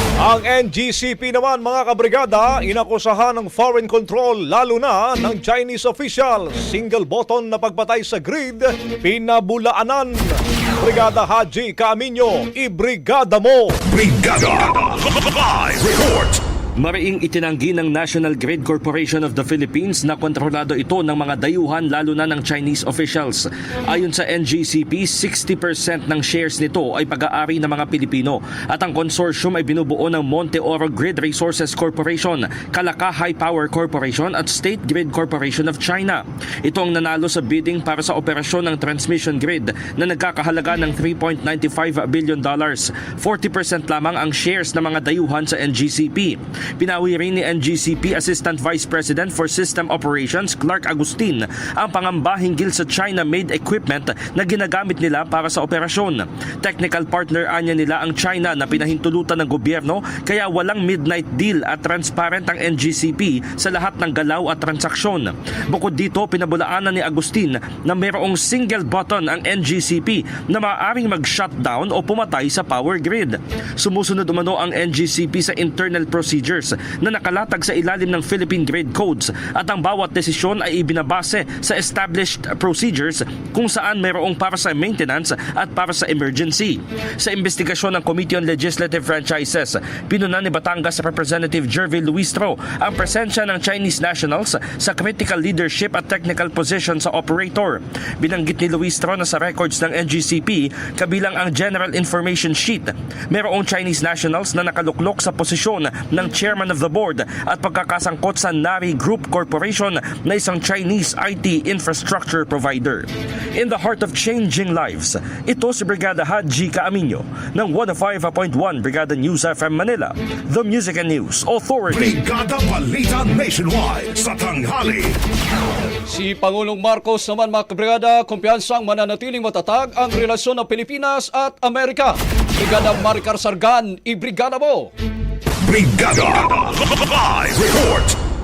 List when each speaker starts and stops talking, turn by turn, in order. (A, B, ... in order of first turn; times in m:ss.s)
0:00.2-0:13.8 A
0:13.8-0:16.4 B
0:16.8-2:02.2 C
2:01.9-2:05.2 B
2:06.1-2:14.9 D
2:15.6-2:18.1 B